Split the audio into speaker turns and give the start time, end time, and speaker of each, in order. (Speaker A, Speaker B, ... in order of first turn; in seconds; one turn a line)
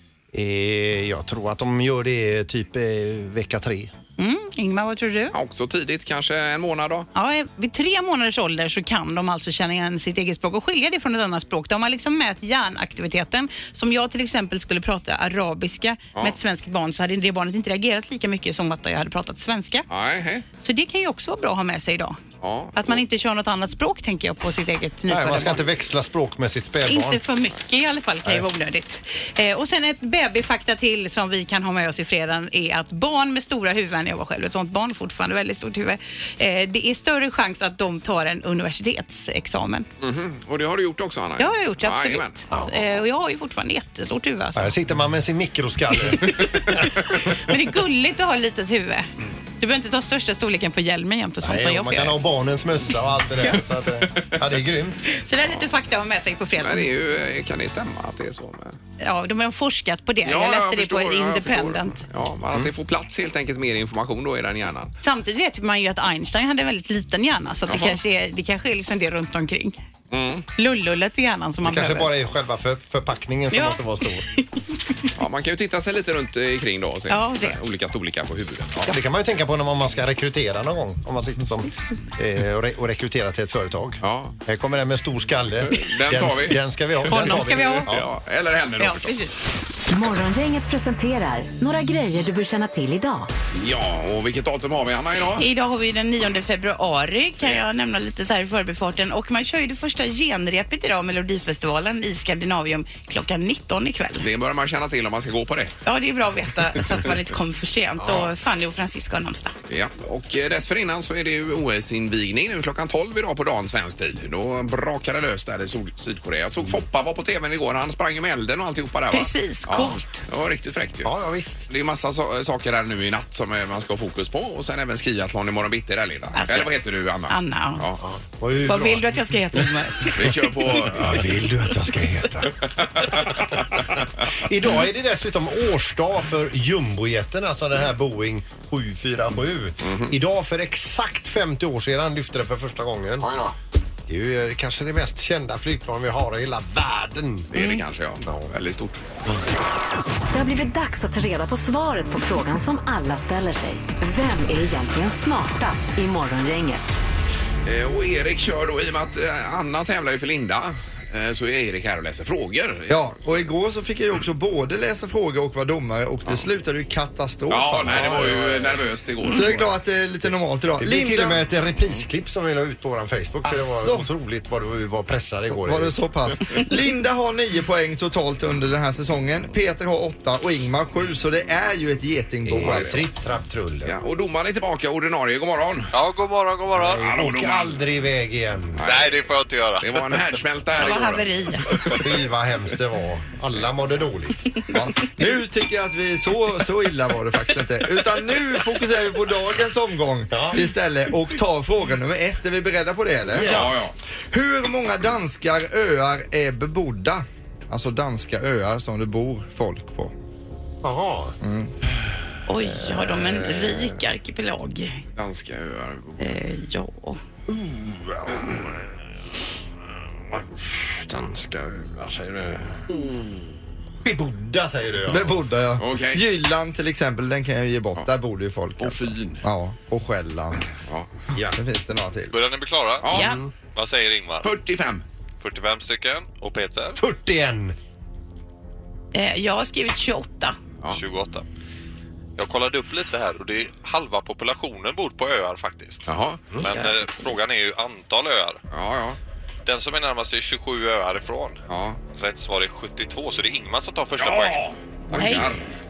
Speaker A: 0.3-3.9
Speaker B: 4.2-5.3
Speaker C: 5.3-7.1
Speaker B: 7.1-19.9
Speaker C: 19.9-20.4
Speaker B: 20.6-22.2
Speaker C: 22.4-23.0
Speaker B: 22.8-25.6
Speaker A: 25.1-27.2
Speaker B: 26.9-39.9
Speaker C: 40.0-42.4
Speaker B: 41.4-44.8
Speaker A: 44.5-46.9
Speaker B: 46.2-52.2
Speaker A: 51.4-55.0
Speaker B: 55.1-56.9
Speaker C: 56.6-58.8
Speaker B: 59.0-62.0
Speaker C: 60.2-64.9
Speaker B: 65.0-69.8
Speaker C: 67.7-68.0
Speaker C: 70.1-70.5
Speaker B: 70.5-72.1
Speaker A: 71.6-74.3
Speaker B: 73.5-74.9
Speaker C: 75.1-78.9
Speaker B: 77.1-77.6
Speaker A: 78.8-88.1
Speaker C: 84.0-84.3
Speaker C: 85.7-86.6
Speaker B: 87.1-87.9
Speaker C: 87.9-89.2
Speaker B: 88.8-89.4
Speaker D: 89.9-93.3
Speaker C: 93.6-95.5
Speaker B: 95.4-104.3
Speaker C: 104.2-105.8
Speaker B: 105.8-109.5
Speaker C: 109.7-121.1
Speaker B: 119.1-120.2
Speaker A: 121.0-121.6
Speaker C: 121.7-128.0
Speaker B: 126.3-126.7
Speaker B: 127.3-127.8
Speaker A: 128.0-129.2
Speaker B: 128.6-130.3
Speaker C: 130.1-131.4
Speaker A: 130.8-143.3
Speaker C: 133.0-133.6
Speaker C: 139.8-140.1
Speaker C: 143.2-143.5
Speaker A: 144.1-147.5
Speaker C: 147.5-149.0
Speaker A: 148.2-148.5
Speaker D: 150.3-156.9
Speaker C: 157.6-163.2
Speaker E: 162.9-168.7
Speaker C: 167.5-169.7
Speaker A: 167.8-168.7
Speaker E: 169.3-171.4
Speaker A: 170.8-175.9
Speaker E: 173.4-174.1
Speaker E: 175.5-183.1
Speaker A: 182.4-184.0
Speaker C: 182.6-182.9
Speaker C: 183.8-185.9
Speaker F: 185.9-187.1
Speaker A: 186.8-188.8
Speaker C: 186.8-187.8
Speaker C: 188.8-189.2
Speaker F: 188.8-189.9
Speaker C: 189.8-192.1
Speaker B: 190.8-191.9
Speaker A: 191.9-194.5
Speaker E: 194.7-210.1
Speaker A: 200.3-200.6
Speaker A: 203.3-203.8
Speaker C: 203.3-203.9
Speaker A: 210.8-211.4
Speaker E: 211.4-211.7
Speaker B: 212.5-215.0
Speaker A: 212.6-214.0
Speaker C: 215.2-216.3
Speaker B: 216.2-217.2
Speaker A: 217.5-218.6
Speaker A: 220.3-222.9
Speaker A: 224.0-225.4
Speaker E: 225.1-230.7
Speaker C: 225.8-226.2
Speaker C: 228.8-229.4
Speaker C: 230.8-231.1
Speaker E: 231.4-232.3
Speaker F: 232.3-233.1
Speaker C: 233.0-233.3
Speaker B: 233.1-233.4
Speaker A: 233.1-233.5
Speaker F: 233.7-234.5
Speaker C: 234.4-235.0
Speaker F: 235.4-237.0
Speaker A: 237.0-237.7
Speaker B: 239.1-240.6
Speaker F: 240.9-241.4
Speaker F: 242.4-246.1
Speaker C: 246.1-246.6
Speaker F: 246.6-248.6
Speaker C: 248.7-249.2
Speaker F: 249.6-254.6
Speaker C: 251.7-252.0
Speaker C: 254.2-255.6
Speaker B: 255.2-255.4